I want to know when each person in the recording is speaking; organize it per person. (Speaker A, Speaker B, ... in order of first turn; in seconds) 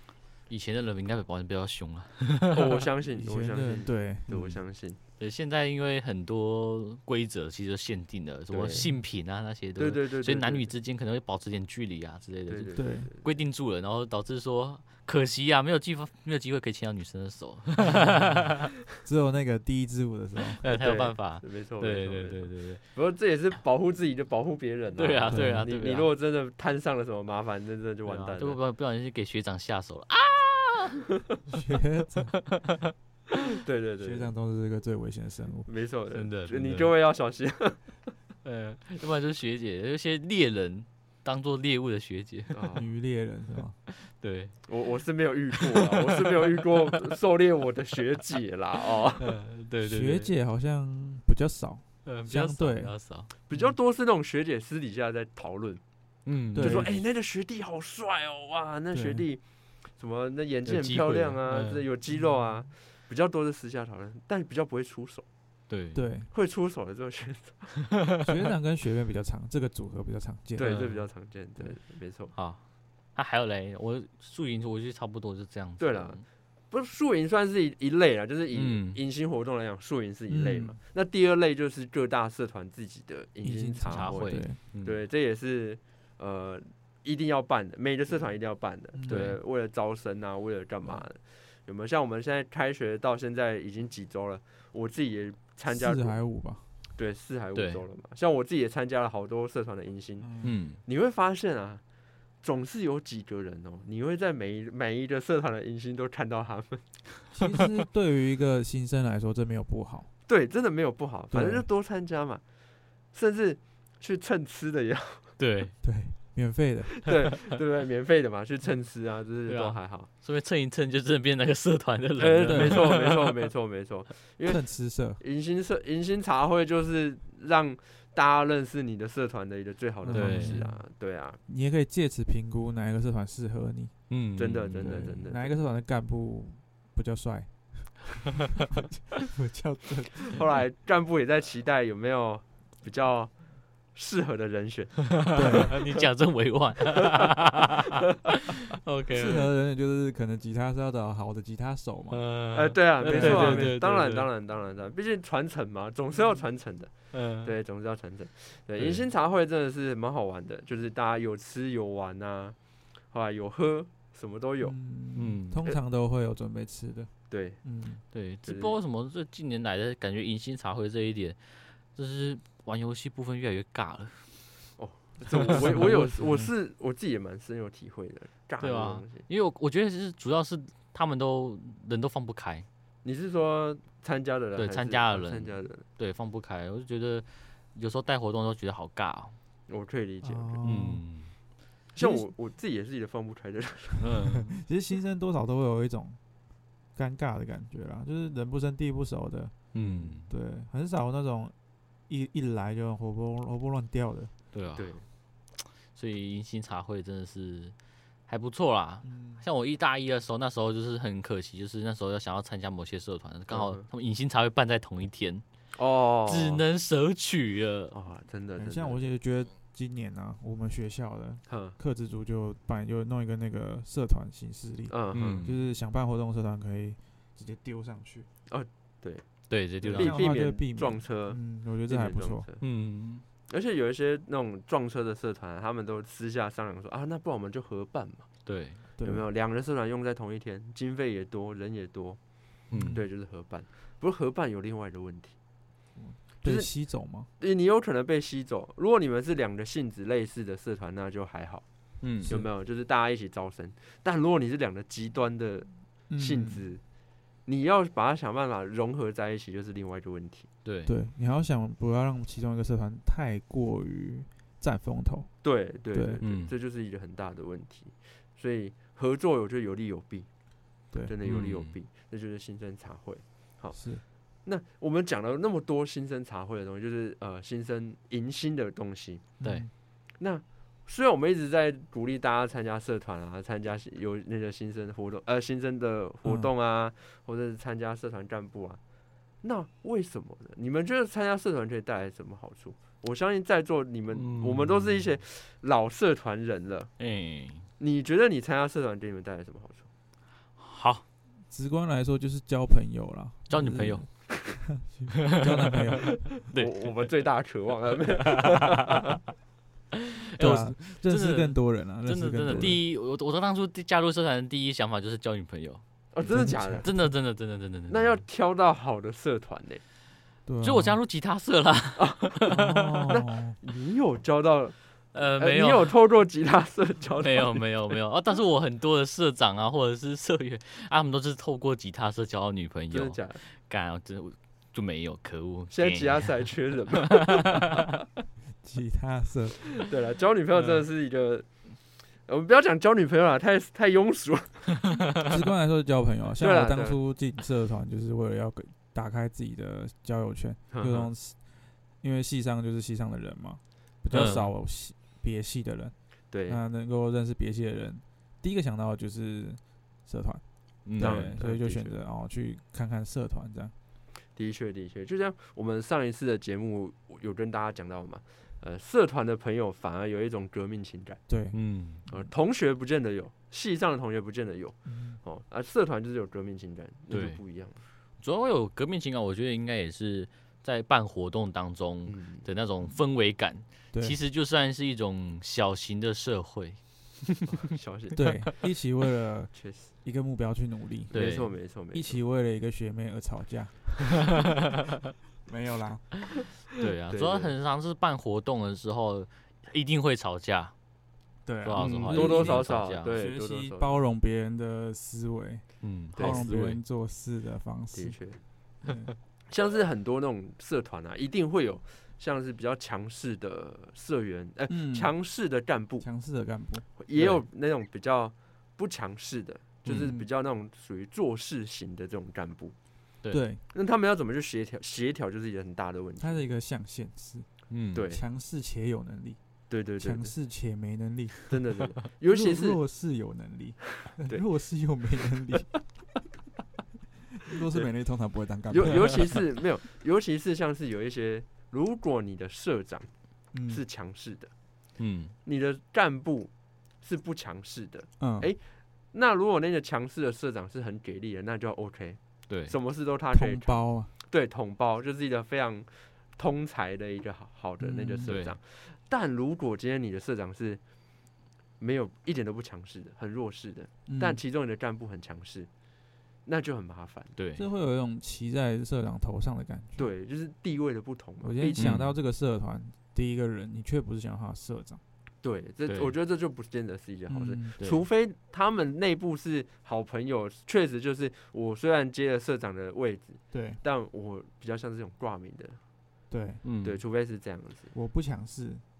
Speaker A: 0.5-2.8, 5.2-18.6, 20.6-22.8, 25.0-26.1, 28.1-31.1, 32.3-32.9, 36.1-36.9, 38.4-42.6, 44.0-44.5, 45.6-46.7, 49.2-50.3, 52.0-53.3, 56.2-57.0, 60.6-61.8, 65.7-66.0, 67.9-68.2, 70.6-71.1, 72.3-72.6, 73.1-76.2, 78.5-79.0, 83.9-85.0, 89.1-89.4, 97.5-97.8, 100.4-100.8, 115.4-115.7, 119.5-123.4, 130.1-130.6, 134.1-135.2, 145.1-149.5, 152.1-154.3, 157.1-157.5, 158.8-159.1, 165.1-165.6, 168.1-174.3, 178.6-182.7, 184.6-189.3, 190.6-191.3, 194.0-194.6, 199.7-200.3, 204.5-204.9, 205.6-207.7, 208.3-215.4, 216.2-217.9, 225.1-225.6, 229.5-230.3, 232.6-233.2, 238.4-238.8, 242.7-243.0, 252.0-252.3, 260.6-260.9, 266.2-266.5, 271.2-271.7, 279.4-279.7, 294.1-295.1, 297.0-297.6, 300.6-301.0, 303.5-304.1, 305.2-306.9, 308.1-309.1, 310.3-318.2, 320.6-323.1, 325.1-325.9, 327.2-336.4, 337.2-337.8, 354.1-354.5, 360.9-361.3, 371.5-372.0, 377.1-377.4, 378.2-387.4, 391.1-391.5, 396.8-400.7, 401.6-403.1, 405.8-406.8, 417.1-417.4, 419.9-420.1, 427.7-428.0, 445.0-445.3, 452.5-452.7, 458.2-458.6, 467.4-467.6, 471.8-472.1, 475.9-476.1, 477.8-478.0, 486.6-487.0
Speaker B: 2.5-5.0, 8.5-8.9, 9.8-10.7, 12.5-13.3, 20.6-28.6, 33.6-34.3, 35.6-37.9, 42.5-42.9, 44.7-49.3, 53.5-55.8, 56.5-59.4, 59.9-65.2, 66.3-67.8, 70.6-72.3, 75.8-76.2, 76.7-96.1, 97.0-101.8, 102.4-106.8, 110.3-112.4, 113.1-115.3, 117.0-120.1, 122.2-124.6, 125.2-131.4, 134.4-135.6, 140.3-143.3, 143.9-145.8, 152.5-162.6, 163.1-164.8, 167.3-167.6, 168.4-168.8, 174.8-179.2, 183.0-185.8, 189.7-190.7, 191.9-194.3, 204.8-205.0, 213.5-213.9, 215.7-216.6, 217.9-219.0, 221.5-221.8, 224.9-225.4, 228.5-229.2, 229.8-232.6, 233.5-238.3, 239.0-242.2, 242.9-245.3, 246.4-246.7, 247.4-251.6, 252.2-256.8, 257.4-260.5, 265.4-270.3, 271.0-273.8, 274.4-279.3, 280.2-288.8, 289.4-296.9, 297.8-299.9, 306.5-309.0, 312.5-312.8, 316.1-316.9, 317.9-319.8, 322.0-322.4, 323.1-324.8, 325.4-327.7, 332.9-333.4, 335.7-337.6, 339.8-341.5, 342.2-344.9, 346.4-347.0, 350.7-351.1, 354.1-354.4, 356.3-356.6, 361.0-362.0, 364.3-371.2, 372.1-377.8, 382.1-382.4, 387.5-388.5, 389.5-389.9, 391.1-392.2, 397.1-397.5, 401.8-404.0, 406.2-406.5, 407.9-408.4, 409.5-416.1, 417.0-422.7, 423.7-426.4, 427.9-428.2, 429.7-430.3, 431.5-432.8, 434.0-434.4, 438.7-443.1, 443.6-444.5, 445.4-446.5, 447.0-460.8, 461.8-465.7, 466.4-467.3, 470.0-471.9, 475.4-485.8, 486.8-487.9
Speaker C: 3.2-4.6, 12.7-13.1, 19.0-20.6, 25.3-25.6, 31.5-32.3, 34.0-35.7, 42.7-43.8, 49.8-52.9, 56.5-56.9, 58.9-59.3, 62.1-62.4, 65.9-66.3, 68.2-70.7, 80.3-80.8, 83.4-84.6, 88.9-89.3, 95.7-96.6, 100.2-100.5, 107.3-110.1, 111.3-111.7, 115.8-117.1, 122.5-122.9, 124.5-125.2, 130.0-130.8, 131.5-133.9, 134.8-140.4, 145.3-145.7, 149.1-152.2, 153.0-153.8, 164.6-167.1, 167.6-168.0, 175.5-176.5, 190.2-191.0, 191.9-192.3, 194.3-196.2, 196.9-199.6, 200.2-201.5, 202.1-204.3, 209.0-209.4, 218.6-228.3, 229.9-232.4, 239.0-239.2, 242.7-243.0, 245.9-247.3, 256.1-256.6, 260.9-265.3, 265.9-266.2, 273.7-274.0, 279.4-279.7, 286.2-286.5, 301.5-304.1, 304.6-306.3, 310.4-312.8, 316.3-317.0, 320.4-321.0, 322.5-323.6, 338.6-339.7, 345.2-351.4, 352.0-355.9, 356.5-360.4, 360.9-363.7, 371.3-371.6, 374.9-375.2, 388.1-391.2, 391.9-394.3, 395.4-396.2, 401.4-408.2, 408.8-409.1, 414.7-415.1, 416.0-416.9, 419.9-420.2, 423.3-423.6, 426.2-427.5, 428.1-429.4, 430.0-431.5, 432.1-435.8, 437.3-439.4, 443.5-443.8, 448.2-448.5, 453.3-454.1, 457.8-458.4, 464.1-464.4, 467.6-470.1, 471.4-475.0, 477.3-477.7, 483.5-483.8, 486.3-486.6, 487.9-488.8